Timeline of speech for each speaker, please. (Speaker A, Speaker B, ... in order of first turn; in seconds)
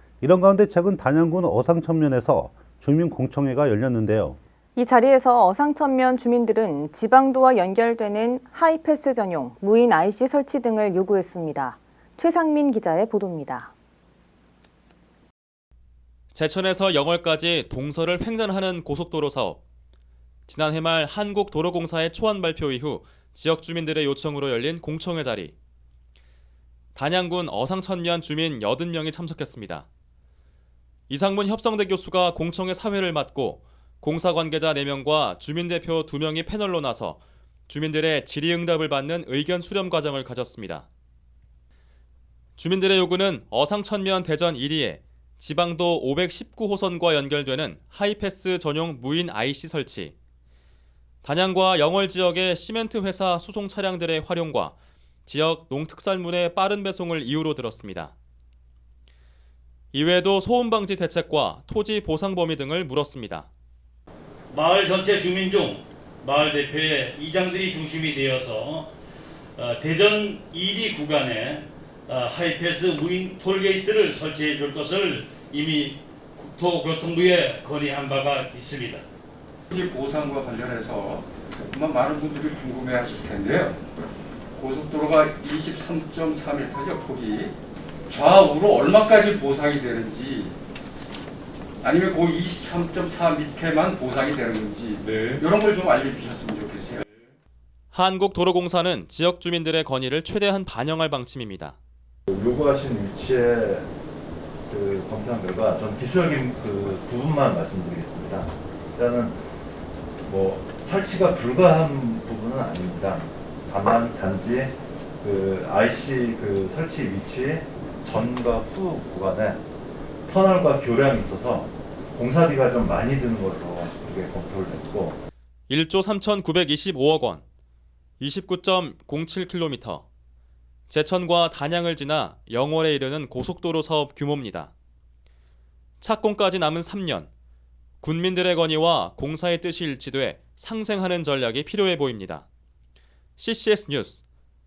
Speaker A: 0.2-4.4
Speaker B: 4.8-13.7
Speaker C: 16.3-19.6, 20.5-25.6, 26.9-29.9, 31.1-40.9, 42.6-50.1, 51.2-54.8, 55.3-58.1, 59.9-63.5, 97.9-101.8, 125.7-127.4, 128.2-130.1, 130.9-134.7, 136.0-137.3, 138.0-142.5, 143.4-144.2
Speaker D: 64.5-68.9, 69.6-79.0
Speaker E: 79.7-83.8, 84.6-87.5, 88.1-90.6, 91.8-97.3
Speaker F: 102.3-103.9, 104.7-109.4, 110.3-119.6, 120.3-125.2